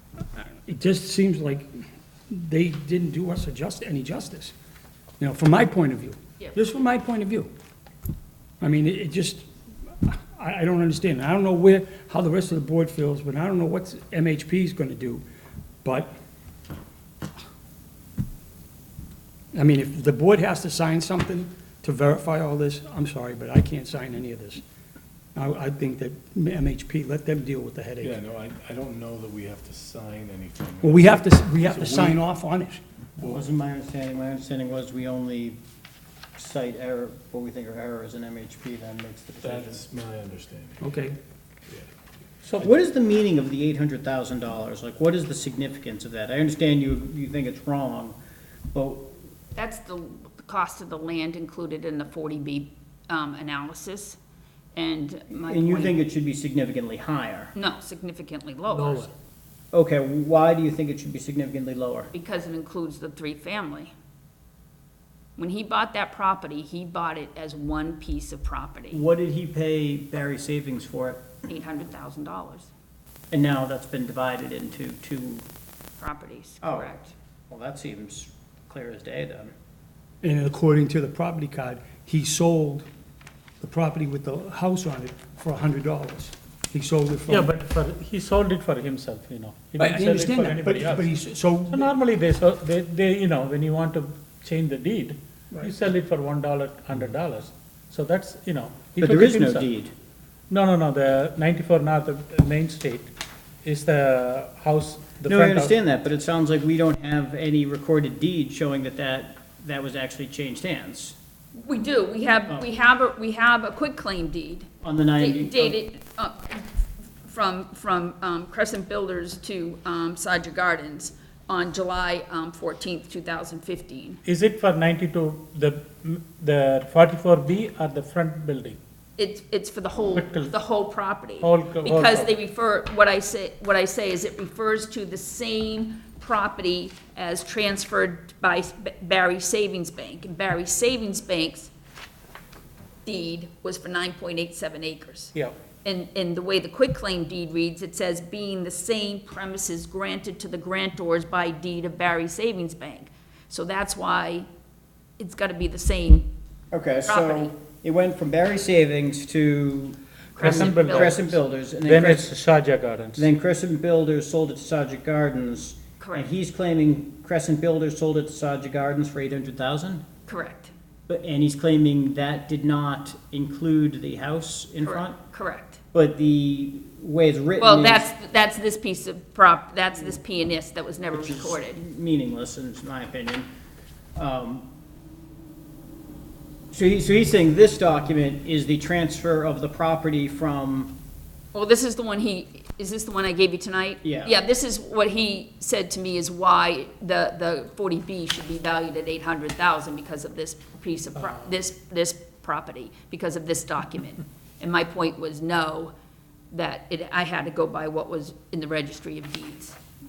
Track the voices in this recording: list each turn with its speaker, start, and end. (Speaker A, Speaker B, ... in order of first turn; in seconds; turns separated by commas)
Speaker A: 0.4-1.7, Speaker A: 2.3-4.5, Speaker A: 5.2-7.5, Speaker A: 8.6-9.4, Speaker A: 10.0-15.2, Speaker A: 15.8-16.1, Speaker A: 19.5-24.6, Speaker A: 25.3-28.2, Speaker B: 28.0-32.2, Speaker A: 30.8-32.8, Speaker C: 33.2-35.6, Speaker C: 36.4-39.8, Speaker B: 39.4-40.9, Speaker A: 40.8-41.2, Speaker D: 42.4-42.7, Speaker C: 42.6-48.1, Speaker C: 48.7-49.1, Speaker E: 49.5-54.2, Speaker E: 54.7-56.0, Speaker C: 55.4-57.5, Speaker E: 57.5-59.1, Speaker D: 58.7-59.1, Speaker C: 59.7-62.1, Speaker E: 62.1-63.9, Speaker E: 65.4-69.0, Speaker C: 68.9-71.3, Speaker E: 71.5-72.7, Speaker C: 73.3-75.4, Speaker E: 76.0-77.1, Speaker C: 76.6-76.9, Speaker C: 77.5-79.5, Speaker A: 80.2-82.9, Speaker A: 83.6-87.5, Speaker D: 87.3-91.1, Speaker A: 89.8-91.9, Speaker D: 91.7-99.7, Speaker C: 99.0-99.9, Speaker D: 100.5-103.1, Speaker D: 103.6-105.7, Speaker C: 105.2-111.1, Speaker E: 111.5-116.7, Speaker C: 114.8-115.8, Speaker E: 117.2-124.2, Speaker D: 124.2-128.8, Speaker E: 129.2-141.7, Speaker D: 130.1-130.5, Speaker D: 131.4-132.3, Speaker E: 143.0-145.3, Speaker E: 145.8-154.5, Speaker E: 155.2-156.3, Speaker C: 156.7-162.3, Speaker E: 157.1-157.5, Speaker E: 160.3-161.2, Speaker D: 160.3-163.3, Speaker C: 163.2-170.0, Speaker E: 166.0-166.3, Speaker E: 170.3-170.7, Speaker C: 171.1-175.2, Speaker E: 174.8-175.8, Speaker C: 175.9-178.1, Speaker E: 177.6-181.8, Speaker C: 181.1-183.5, Speaker C: 184.2-184.7, Speaker C: 186.7-190.9, Speaker E: 191.5-205.9, Speaker C: 194.0-194.3, Speaker E: 206.5-209.8